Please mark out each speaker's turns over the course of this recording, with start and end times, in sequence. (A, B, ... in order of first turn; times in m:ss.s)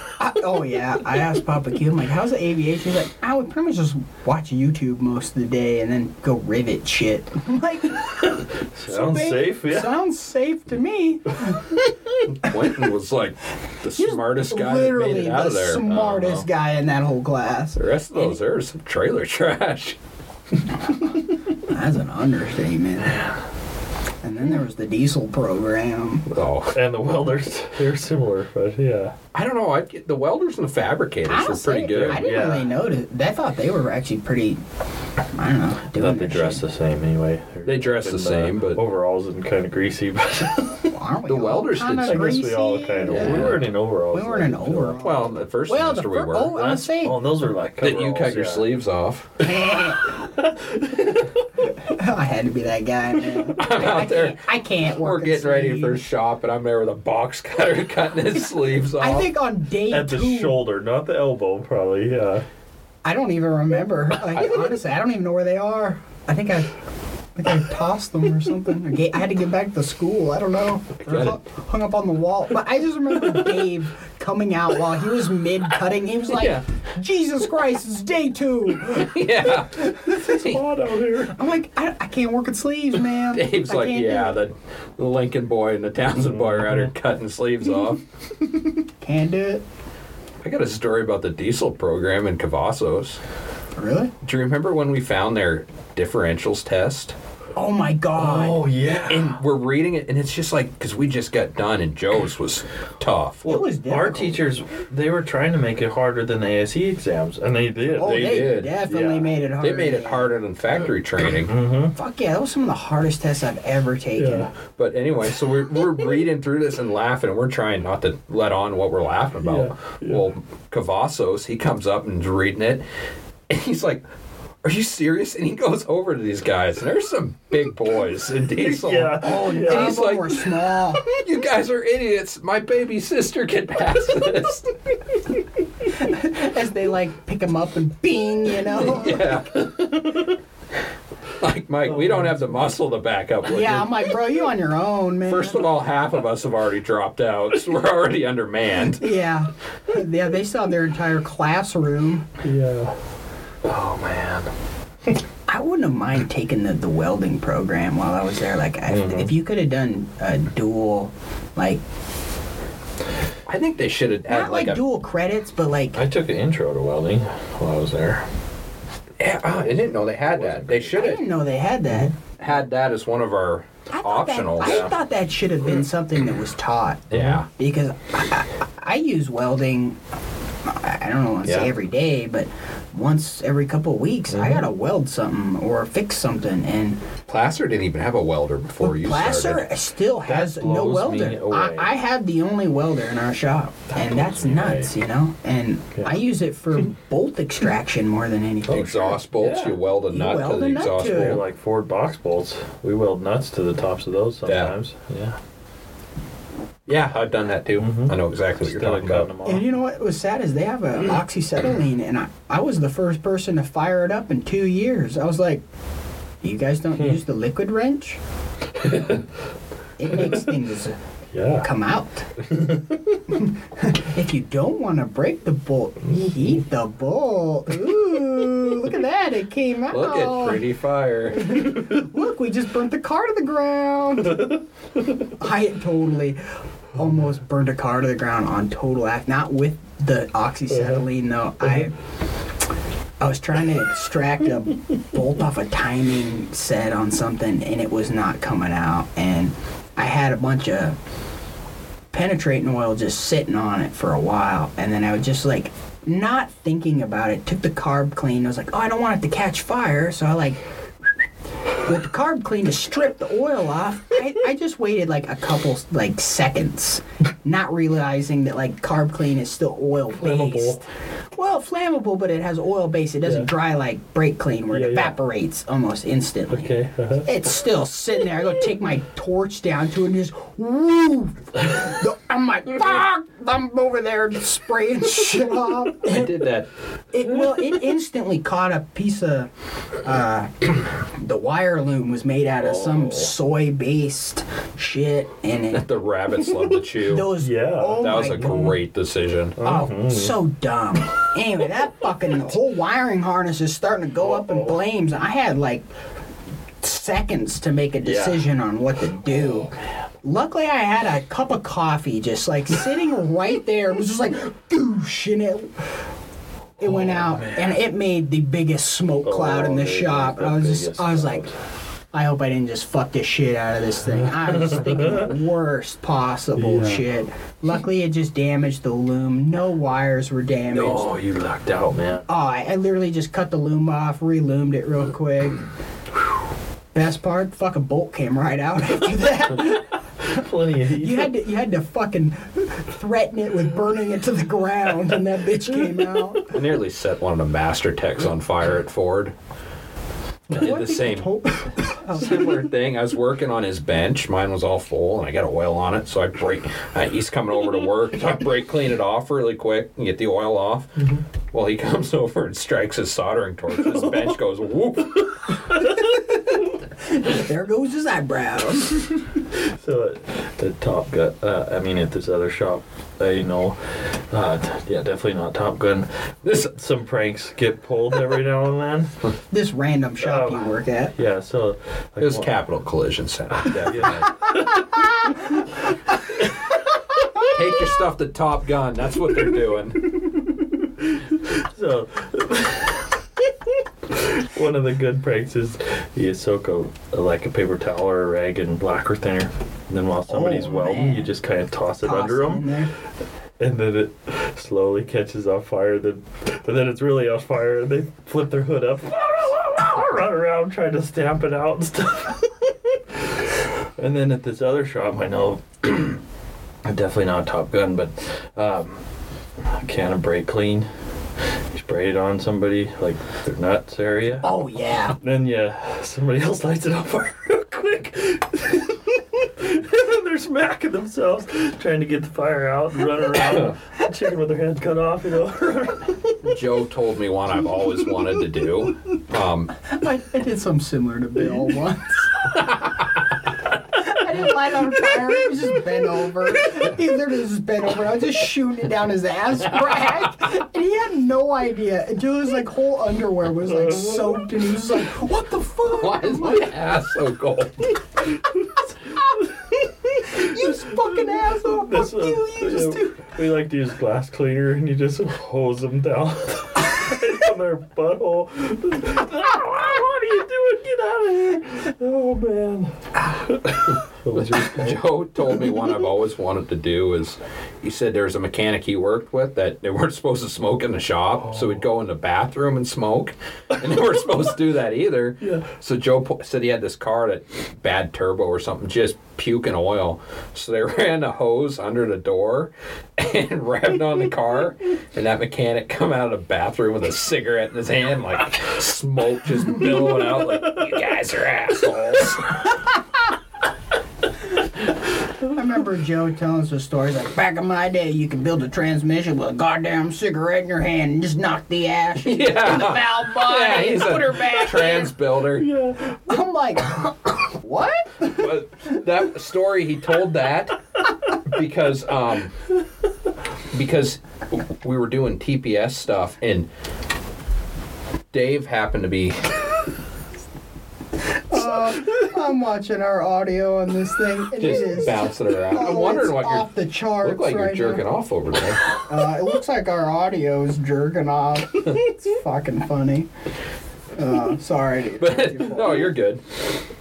0:00.2-0:12.2 A
0:08.2-0:09.9 B
0:12.2-0:16.4 C
0:14.0-0:18.3 A
0:17.8-0:20.0 C
0:20.7-0:23.3 A
0:23.0-0:23.3 B
0:24.2-0:26.3 A
0:26.3-0:26.7 C
0:26.7-0:29.2 B
0:29.3-0:32.2 C
0:31.3-0:34.6 A
0:31.9-0:32.7 B
0:35.3-0:36.6 A
0:35.9-0:40.9 B
0:37.6-0:38.8 C
0:40.9-0:43.6 A
0:41.3-0:42.4 C
0:42.0-0:45.1 B
0:43.1-0:43.6 C
0:44.1-0:47.2 A
0:45.0-0:46.5 C
0:46.5-0:48.7 B
0:47.8-0:49.4 C
0:49.4-0:50.3 A
0:50.2-0:51.4 B
0:51.6-0:56.0 A
0:53.5-0:59.3 C
0:59.0-1:00.6 A
0:59.9-1:02.4 B
1:03.0-1:06.7 A
1:07.4-1:20.5 A
1:11.1-1:11.4 C
1:18.8-1:20.6 C
1:19.8-1:21.4 B
1:21.2-1:24.4 A
1:23.3-1:28.0 C
1:26.1-1:26.9 B
1:28.8-1:29.6 A
1:30.4-1:33.2 C
1:33.8-1:34.1 A
1:34.2-1:37.1 C
1:37.6-1:38.6 A
1:38.2-1:39.4 B
1:39.1-1:43.5 C
1:43.4-1:44.4 A
1:43.8-1:49.3 B
1:48.0-1:50.3 A
1:48.0-1:48.8 C
1:49.6-1:51.5 C
1:51.4-1:51.9 B
1:51.9-1:54.5 A
1:54.2-1:54.5 B
1:54.8-2:02.8 C
1:59.4-2:00.2 B
2:03.5-2:04.0 C
2:04.6-2:14.7 C
2:08.6-2:10.0 B
2:09.2-2:11.0 A
2:15.9-2:19.2 A
2:18.8-2:20.0 C
2:21.4-2:24.0 C
2:21.9-2:22.5 B
2:23.4-2:25.6 A
2:25.3-2:29.1 C
2:29.0-2:32.3 A
2:32.4-2:33.0 B
2:33.6-2:34.5 B
2:35.5-2:41.8 A
2:38.9-2:39.3 B
2:43.5-2:44.8 C
2:44.3-2:46.0 A
2:45.9-2:48.3 B
2:49.2-2:51.2 C
2:50.3-2:51.0 B
2:51.0-2:52.2 A
2:52.4-2:54.9 C
2:53.9-3:00.0 A
2:54.6-2:54.9 B
2:57.1-2:57.4 B
2:57.1-2:57.5 C
3:00.6-3:07.0 A
3:04.3-3:04.7 B
3:07.3-3:09.6 C
3:08.8-3:19.2 A
3:10.2-3:11.9 B
3:13.9-3:14.9 B
3:18.7-3:21.4 C
3:19.3-3:19.8 B
3:20.1-3:21.4 A
3:21.1-3:25.4 B
3:24.4-3:24.7 C
3:26.9-3:29.3 C
3:27.8-3:29.7 B
3:29.4-3:35.6 A
3:36.4-3:38.2 A
3:40.0-3:41.0 A
3:41.3-3:41.7 B
3:41.6-3:42.4 A
3:42.5-3:43.0 B
3:43.3-3:50.6 A
3:49.9-3:51.7 C
3:51.3-3:54.6 A
3:55.2-3:56.4 A
3:56.9-4:01.9 A
4:03.2-4:11.0 A
4:12.1-4:20.6 A
4:21.8-4:30.8 A
4:30.1-4:30.9 B
4:31.3-4:46.4 A
4:33.2-4:33.5 B
4:34.7-4:35.2 B
4:36.5-4:37.3 B
4:46.1-4:46.7 C
4:47.1-4:49.5 A
4:50.0-4:55.8 A
4:52.6-4:53.3 B
4:55.7-4:57.3 C
4:57.0-4:58.8 A
4:57.4-4:58.7 B
4:58.0-4:59.6 C
4:59.6-5:00.3 B
4:59.6-5:05.8 A
5:04.2-5:04.7 B
5:06.8-5:09.7 A
5:08.0-5:08.4 B
5:10.2-5:15.8 A
5:16.8-5:17.8 B
5:16.8-5:21.4 A
5:19.2-5:21.5 B
5:22.1-5:31.1 A
5:24.1-5:25.3 B
5:26.6-5:27.0 B
5:30.7-5:32.2 B
5:32.3-5:35.6 A
5:36.9-5:46.6 A
5:39.6-5:41.3 B
5:46.5-5:49.3 C
5:50.5-5:52.6 A
5:50.5-5:51.3 C
5:52.1-6:05.7 C
6:05.9-6:09.3 A
6:09.5-6:19.2 B
6:16.4-6:16.7 C
6:19.5-6:21.1 A
6:20.2-6:22.5 B
6:22.2-6:24.5 C
6:23.6-6:25.0 B
6:24.9-6:25.6 A
6:27.4-6:30.1 C
6:30.1-6:42.7 B
6:40.3-6:41.3 A
6:42.0-6:42.9 A
6:43.6-6:56.2 B
6:56.8-6:59.0 B
6:59.6-7:00.9 B
7:01.7-7:04.5 B
7:04.4-7:05.2 A
7:05.1-7:16.4 B
7:16.4-7:19.7 C
7:19.8-7:22.4 A
7:23.9-7:36.7 A
7:33.6-7:34.5 B
7:35.9-7:37.9 C
7:38.7-7:39.3 B
7:40.2-7:43.3 A
7:40.2-7:55.0 B
7:54.4-8:22.8 C
8:25.4-8:35.1 A
8:32.2-8:35.7 C
8:35.5-8:36.2 B
8:36.1-8:38.5 A
8:38.2-8:40.8 C
8:41.3-8:42.5 C
8:43.7-8:46.7 C
8:48.3-8:49.5 C
8:51.5-8:58.0 A
8:54.6-8:56.7 C
8:57.2-8:59.0 C
8:59.0-9:03.3 A
9:04.2-9:06.1 A
9:05.2-9:06.6 C